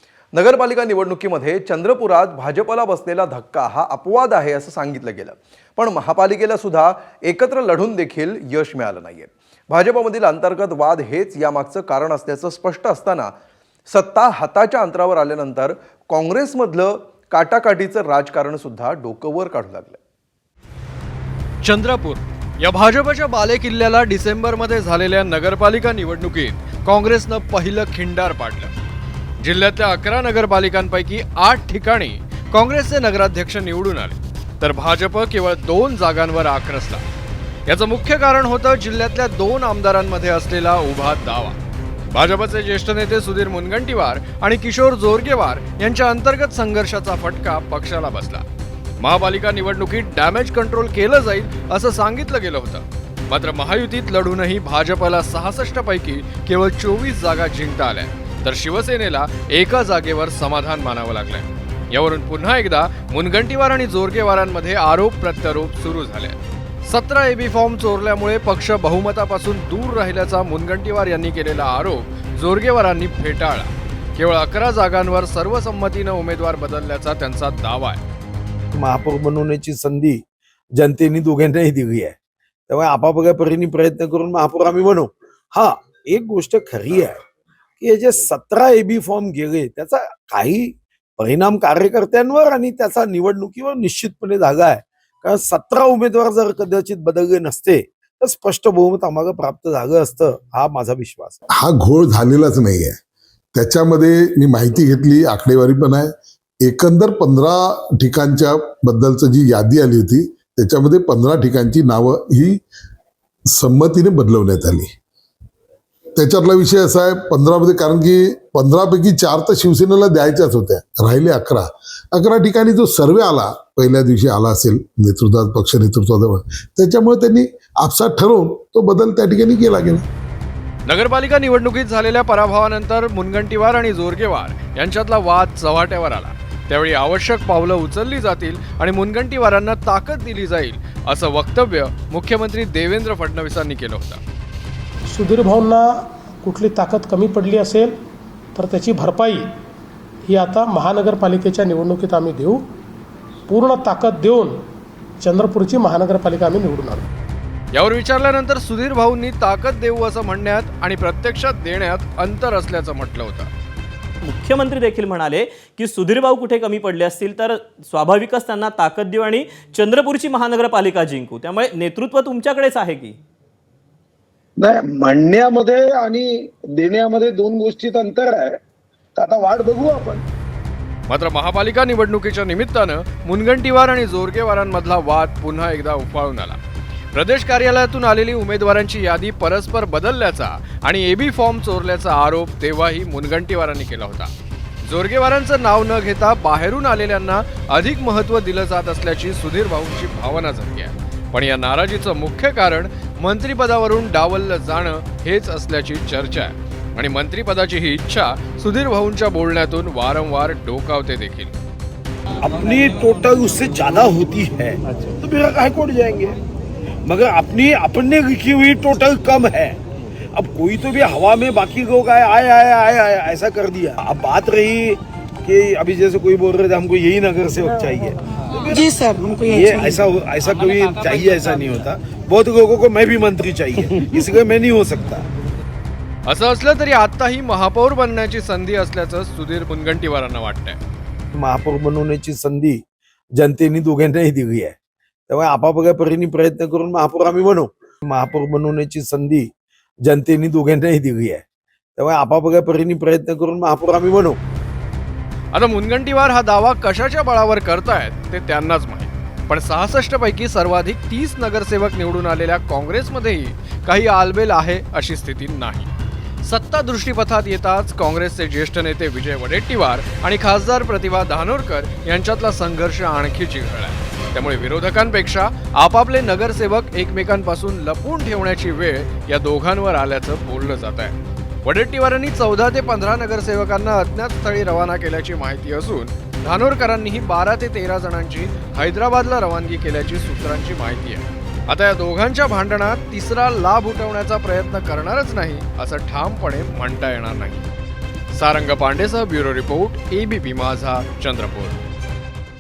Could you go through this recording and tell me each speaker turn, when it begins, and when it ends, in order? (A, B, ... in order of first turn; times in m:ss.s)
0:00.3-0:13.3 A
0:13.9-0:20.0 A
0:21.6-0:28.7 B
0:29.4-0:37.0 B
0:37.7-0:41.6 B
0:42.1-0:48.4 B
0:49.0-1:18.0 B
1:18.7-1:20.2 C
1:20.8-1:22.1 C
1:22.7-1:27.2 C
1:27.8-1:41.4 C
1:41.6-1:43.0 D
1:43.5-1:46.1 D
1:46.6-1:52.6 D
1:53.5-1:54.9 D
1:56.2-2:10.0 D
2:10.9-2:24.2 B
2:25.1-2:25.8 E
2:26.4-2:27.9 E
2:28.6-2:29.4 E
2:30.3-2:32.6 E
2:33.5-2:34.5 E
2:35.2-2:37.0 E
2:37.7-2:43.5 B
2:44.2-2:53.2 F
2:54.6-2:58.6 G
2:59.1-3:00.2 G
3:01.1-3:06.6 B
3:07.1-3:14.3 B
3:14.8-3:31.6 B
3:32.4-3:36.3 C
3:37.0-3:39.8 C
3:40.3-3:55.2 C
3:56.3-4:00.8 B
4:01.4-4:02.8 C
4:03.4-4:04.7 C
4:05.3-4:09.4 C
4:10.0-4:11.4 C
4:12.0-4:14.4 C
4:15.5-4:25.9 B
4:26.4-4:57.7 B
4:58.3-5:01.8 B